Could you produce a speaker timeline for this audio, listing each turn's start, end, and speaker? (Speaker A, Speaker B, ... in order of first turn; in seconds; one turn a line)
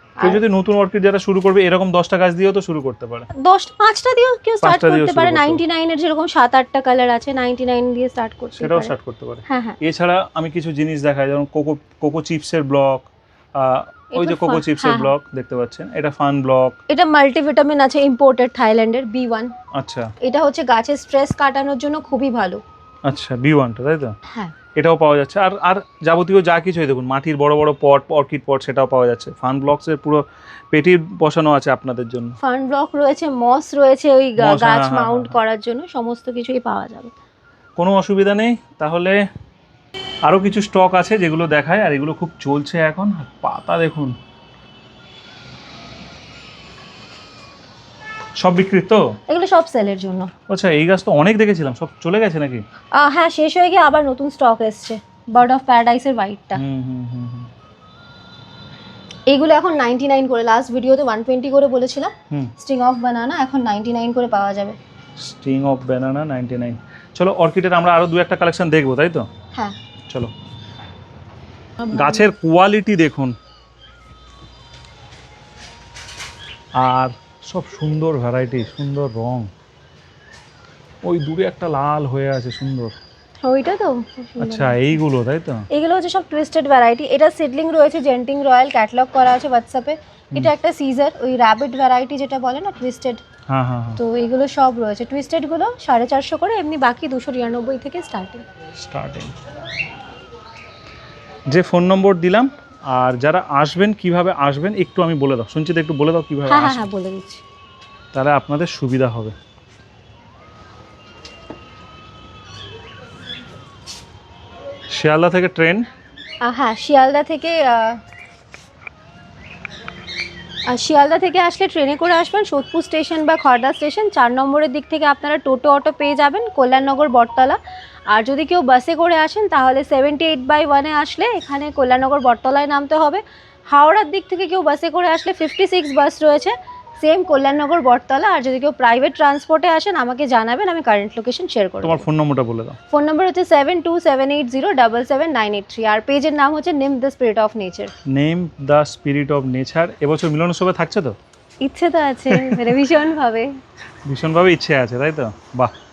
Speaker A: 0.2-3.3
Speaker B: 3.4-8.9
Speaker A: 4.6-5.6
Speaker A: 8.6-16.8
Speaker B: 9.5-9.8
Speaker B: 14.1-15.1
Speaker B: 16.9-19.5
Speaker A: 19.7-20.1
Speaker B: 20.2-22.6
Speaker A: 23.1-24.1
Speaker B: 24.3-24.5
Speaker A: 24.7-32.3
Speaker B: 32.4-37.1
Speaker A: 34.4-35.4
Speaker A: 37.8-39.2
Speaker A: 40.2-44.1
Speaker A: 48.4-49.0
Speaker B: 49.3-50.3
Speaker A: 50.5-52.6
Speaker B: 52.9-56.6
Speaker A: 56.5-57.5
Speaker B: 59.3-64.8
Speaker A: 65.2-69.3
Speaker A: 71.9-73.3
Speaker B: 72.0-72.2
Speaker A: 76.8-79.5
Speaker A: 81.0-82.9
Speaker B: 83.4-85.0
Speaker A: 84.4-85.7
Speaker B: 85.7-93.2
Speaker A: 93.5-94.0
Speaker B: 94.0-98.4
Speaker A: 98.8-99.3
Speaker A: 101.5-106.9
Speaker B: 106.5-107.4
Speaker A: 108.1-109.3
Speaker A: 114.9-115.8
Speaker B: 116.4-118.0
Speaker B: 120.7-127.6
Speaker B: 128.1-142.1
Speaker A: 141.8-142.8
Speaker B: 142.9-147.9
Speaker A: 148.1-151.1
Speaker B: 151.6-153.5
Speaker A: 152.3-152.7
Speaker A: 154.1-155.7